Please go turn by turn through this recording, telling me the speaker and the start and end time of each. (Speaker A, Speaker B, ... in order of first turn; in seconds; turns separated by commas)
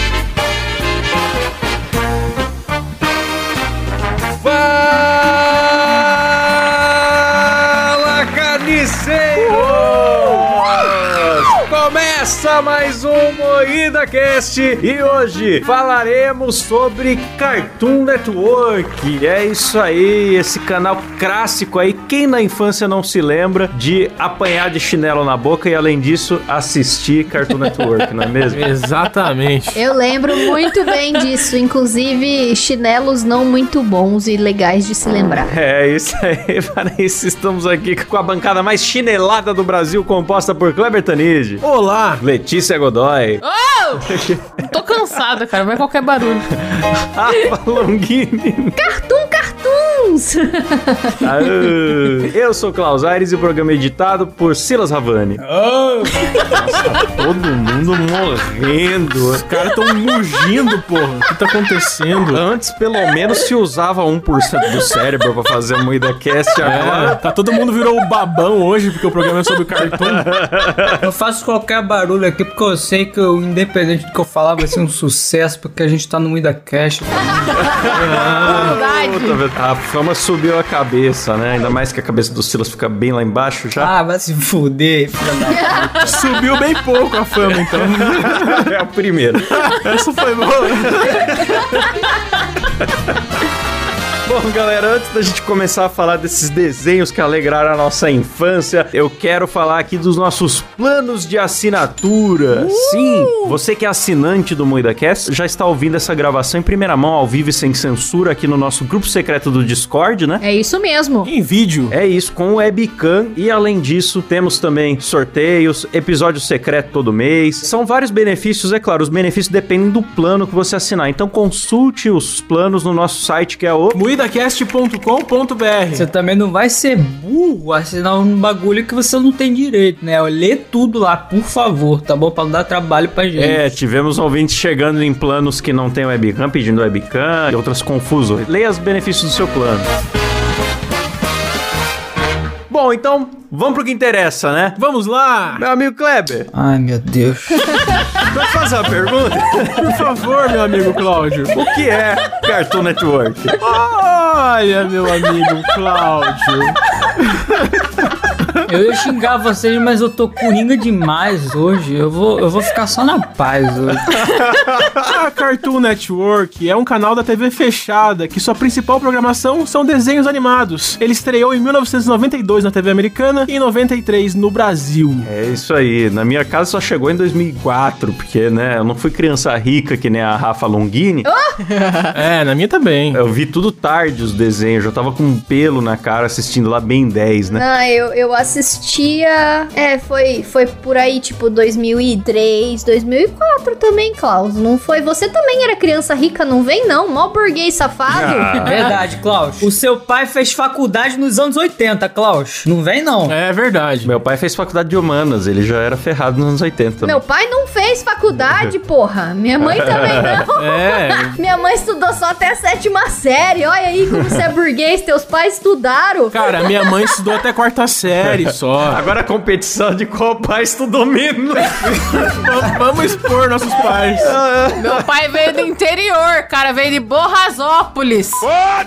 Speaker A: 4.4-28.6, Speaker B: 9.5-10.4, Speaker B: 28.5-29.8, Speaker C: 29.8-35.5, Speaker A: 35.5-41.6, Speaker B: 41.6-42.2, Speaker A: 42.2-43.4, Speaker D: 43.4-46.5, Speaker A: 44.0-44.6, Speaker A: 46.8-48.8, Speaker C: 48.8-51.7, Speaker A: 51.2-55.4, Speaker E: 55.4-56.3, Speaker A: 56.5-59.4, Speaker B: 59.3-62.4, Speaker A: 62.3-67.2, Speaker B: 66.6-70.3, Speaker A: 69.8-71.0, Speaker E: 71.0-77.7, Speaker A: 77.6-83.9, Speaker B: 78.0-78.8, Speaker D: 78.5-79.4, Speaker E: 83.8-86.0, Speaker C: 85.5-85.9, Speaker B: 86.0-88.7, Speaker A: 87.8-89.8, Speaker B: 89.7-91.7, Speaker A: 90.6-92.0, Speaker A: 94.3-110.4, Speaker B: 102.6-103.5, Speaker C: 110.4-111.3, Speaker B: 111.3-111.9, Speaker A: 111.9-124.0, Speaker B: 123.9-126.1, Speaker E: 125.9-133.6, Speaker A: 133.3-139.9, Speaker A: 142.7-144.8, Speaker B: 144.8-145.6, Speaker A: 145.6-146.5, Speaker E: 146.5-147.9, Speaker A: 148.2-149.9, Speaker B: 149.8-151.5, Speaker A: 151.5-153.6, Speaker B: 153.6-156.8, Speaker E: 158.7-164.2, Speaker A: 164.2-165.0, Speaker B: 165.1-175.3, Speaker A: 175.2-181.3, Speaker C: 181.2-181.6, Speaker D: 181.8-182.1, Speaker B: 182.1-183.2, Speaker A: 183.1-187.6, Speaker C: 187.5-198.8, Speaker A: 198.1-198.8, Speaker E: 198.6-203.4, Speaker B: 203.3-204.1, Speaker A: 204.1-207.2, Speaker C: 207.0-217.1, Speaker A: 209.6-210.4, Speaker B: 210.6-211.4, Speaker B: 216.3-219.0, Speaker A: 218.3-222.5, Speaker B: 221.8-224.4, Speaker A: 224.2-225.0, Speaker D: 224.8-228.5